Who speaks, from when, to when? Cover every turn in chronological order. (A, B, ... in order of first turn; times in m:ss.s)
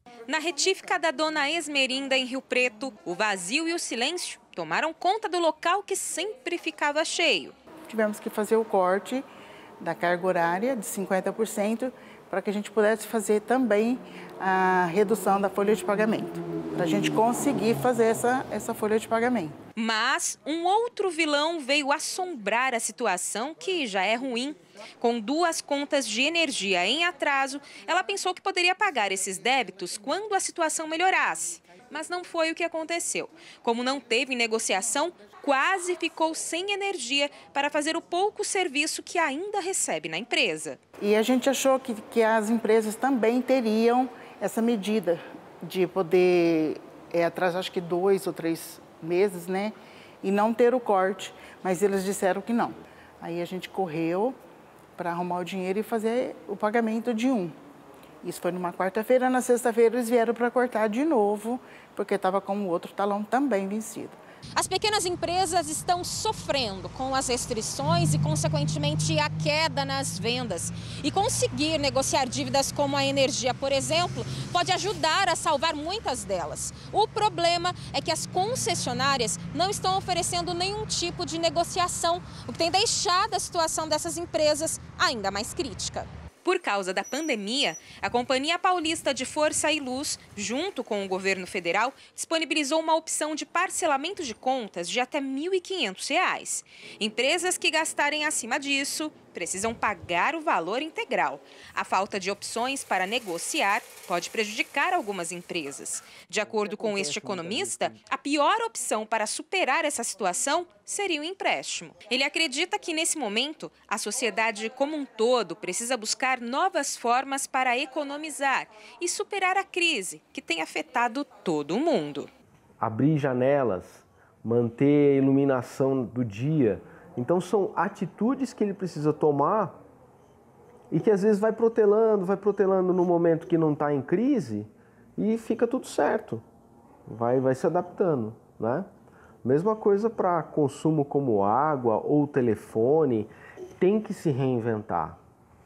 0:00.3-0:07.6 A
0:07.9-0:09.2 B
0:09.8-0:19.6 B
0:19.8-0:40.8 A
0:41.0-0:54.4 B
0:55.0-0:57.6 B
0:58.2-1:04.2 B
1:04.6-2:02.3 A
1:46.4-1:48.0 C
2:02.8-2:09.8 C
2:10.9-2:16.4 C
2:17.1-2:18.9 C
2:19.4-2:25.2 C